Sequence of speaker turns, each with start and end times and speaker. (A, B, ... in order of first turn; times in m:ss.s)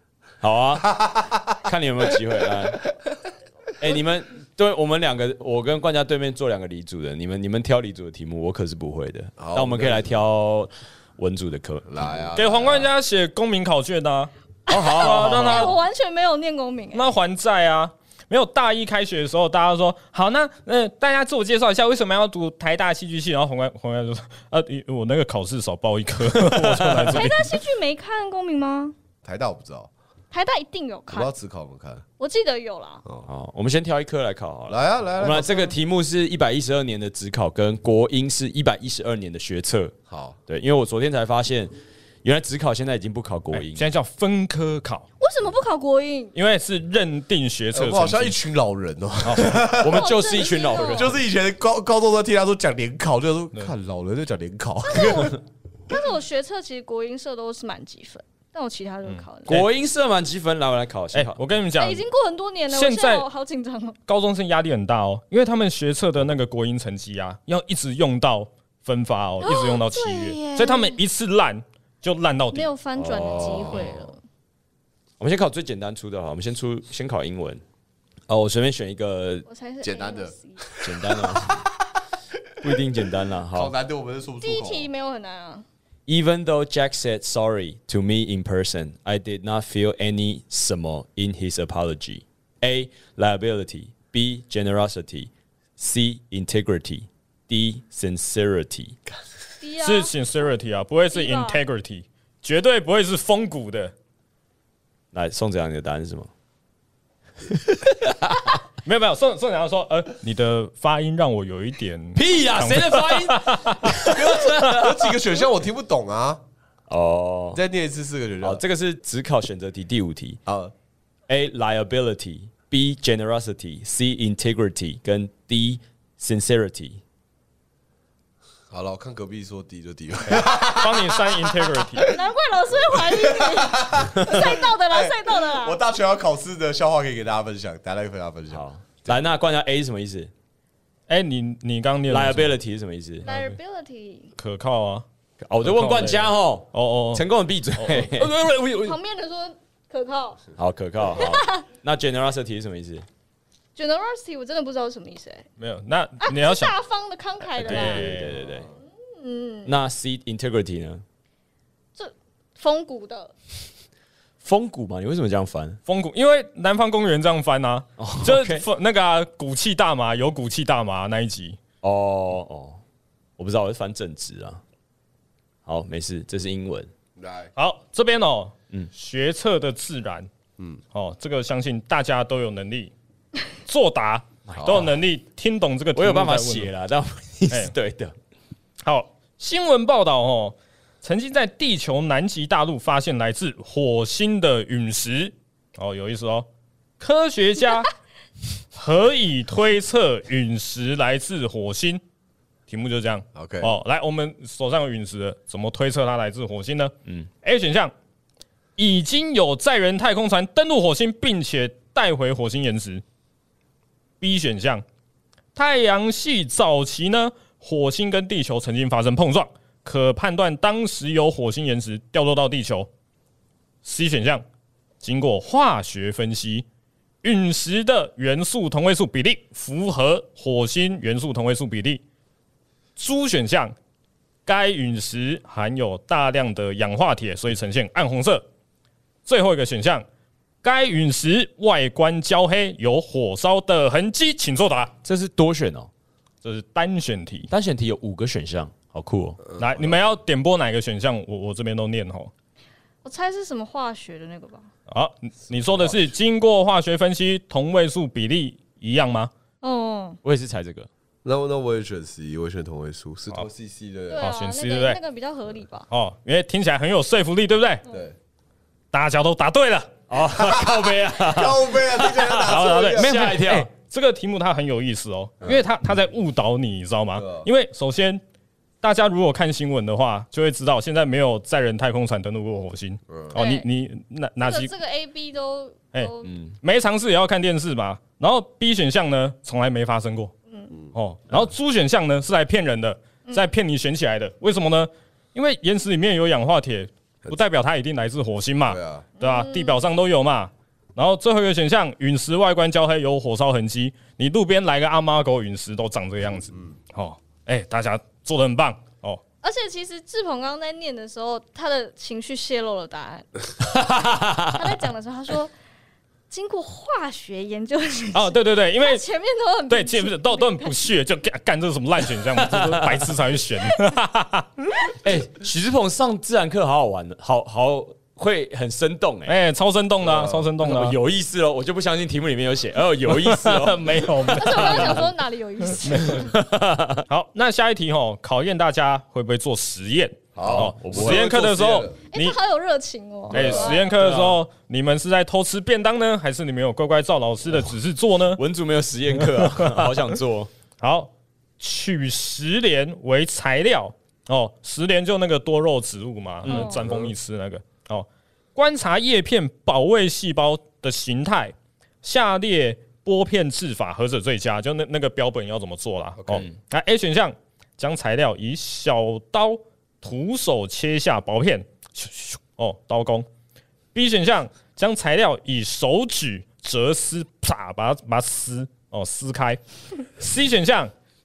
0:00.4-0:01.0 A
0:00.8-0:01.5 B
0:01.5-0:02.9 A
0:03.8-0:12.0 A
0:09.4-0:10.2 B
0:11.9-0:12.9 B
0:12.4-0:14.3 C
0:14.7-0:17.1 D
0:14.7-0:15.8 A
0:15.0-0:15.8 C
0:16.9-0:27.6 C
0:26.4-0:27.2 A
0:27.1-0:29.0 D
0:29.2-0:29.9 B
0:30.3-0:31.3 D
0:31.1-0:32.0 B
0:32.2-0:33.0 D
0:33.3-0:40.0 A
0:34.7-0:35.8 B
0:40.1-0:40.4 B
0:40.5-0:43.8 A
0:43.5-0:45.1 C
0:45.2-0:46.3 D
0:46.4-0:48.4 C
0:47.7-0:50.1 B
0:49.2-0:49.6 C
0:49.7-0:51.2 A
0:49.8-0:51.1 D
0:50.9-0:55.4 B
0:54.9-0:59.6 D
0:59.1-0:59.7 C
0:59.5-1:01.4 A
1:01.1-1:02.1 C
1:01.8-1:04.0 D
1:02.7-1:03.3 C
1:04.1-1:12.7 C
1:09.4-1:11.0 D
1:12.5-1:14.2 D
1:13.0-1:14.1 A
1:15.2-1:17.6 A
1:18.3-1:19.5 A
1:19.5-1:20.6 D
1:19.8-1:22.0 B
1:20.8-1:21.6 A
1:22.6-1:23.7 A
1:23.5-1:24.9 B
1:24.4-1:25.6 D
1:26.1-1:39.0 A
1:39.6-1:40.2 D
1:39.8-1:43.9 C
1:41.1-1:41.6 D
1:45.1-1:46.3 A
1:48.8-1:54.8 C
1:52.2-1:55.1 A
1:54.0-1:56.4 B
1:56.9-1:57.6 A
1:57.5-1:58.6 B
1:58.4-2:00.4 A
2:00.5-2:00.7 B
2:01.3-2:07.0 A
2:08.7-2:12.2 B
2:10.3-2:12.1 C
2:12.1-2:15.8 D
2:12.9-2:19.2 B
2:18.5-2:20.3 A
2:21.1-2:22.6 C
2:22.1-2:23.3 A
2:23.2-2:24.3 D
2:23.3-2:23.6 C
2:24.4-2:25.0 C
2:25.4-2:28.5 A
2:25.6-2:27.2 C
2:27.8-2:29.0 C
2:28.8-2:30.4 D
2:30.6-2:33.1 A
2:31.1-2:31.7 D
2:33.8-2:35.5 D
2:35.6-2:36.7 C
2:36.2-2:38.1 D
2:37.6-2:38.4 C
2:37.6-2:38.7 A
2:38.3-2:38.7 B
2:39.0-2:39.7 D
2:39.7-2:41.0 A
2:42.0-2:43.3 D
2:44.4-2:45.8 A
2:45.9-2:51.6 C
2:48.0-2:48.6 A
2:51.8-2:52.8 A
2:53.4-2:54.6 A
2:55.7-2:56.9 A
2:57.2-2:57.5 B
2:57.6-3:00.3 C
3:00.9-3:02.9 C
3:03.6-3:06.7 C
3:04.5-3:05.0 A
3:04.6-3:04.9 B
3:06.0-3:08.1 A
3:08.8-3:16.5 C
3:17.0-3:17.9 C
3:18.7-3:22.0 C
3:22.7-3:27.9 C
3:23.3-3:23.8 B
3:28.8-3:33.0 C
3:34.2-3:34.8 C
3:35.6-3:42.9 C
3:43.8-3:44.4 C
3:45.0-3:46.6 C
3:47.2-3:52.0 C
3:53.0-3:53.8 C
3:54.5-3:58.4 C
3:59.3-4:00.1 C
4:00.6-4:04.9 C
4:05.0-4:05.9 A
4:06.4-4:07.5 C
4:07.5-4:09.4 A
4:09.5-4:10.0 B
4:09.6-4:12.3 C
4:13.0-4:14.7 D
4:14.9-4:19.3 C
4:15.5-4:16.1 B
4:19.6-4:20.2 D
4:20.2-4:20.9 A
4:21.2-4:24.3 B
4:24.1-4:25.9 D
4:24.2-4:25.0 C
4:25.9-4:27.8 C
4:27.9-4:28.2 B
4:28.9-4:30.0 C
4:30.1-4:33.7 A
4:30.4-4:33.4 B
4:32.4-4:38.2 C
4:37.2-4:37.5 B
4:38.8-4:44.7 C
4:43.1-4:43.4 B
4:43.3-4:43.7 D
4:44.4-4:46.4 D
4:45.9-4:50.3 C
4:46.2-4:46.6 A
4:50.9-5:09.2 C
4:53.3-4:53.5 D
4:58.7-4:59.1 B
4:59.2-4:59.8 D
5:09.4-5:13.9 D
5:13.8-5:14.4 A
5:14.5-5:15.5 D
5:16.3-5:20.9 D
5:18.1-5:19.0 C
5:19.7-5:24.9 C
5:22.2-5:23.1 A
5:25.0-5:29.4 A
5:29.3-5:31.0 C
5:30.0-5:30.5 B
5:30.6-5:35.0 A
5:33.1-5:35.1 C
5:34.3-5:36.3 D
5:35.8-5:36.4 C
5:36.1-5:37.0 A
5:37.1-5:42.4 C
5:40.4-5:42.0 B
5:40.4-5:41.4 A
5:42.1-5:43.9 D
5:43.3-5:43.8 B
5:43.3-5:48.4 C
5:43.9-5:44.4 A
5:48.4-5:50.5 A
5:49.2-5:50.0 C
5:50.8-6:13.3 C
5:56.4-5:56.9 A
5:56.5-5:56.9 D
6:06.2-6:06.5 B
6:13.9-6:20.9 C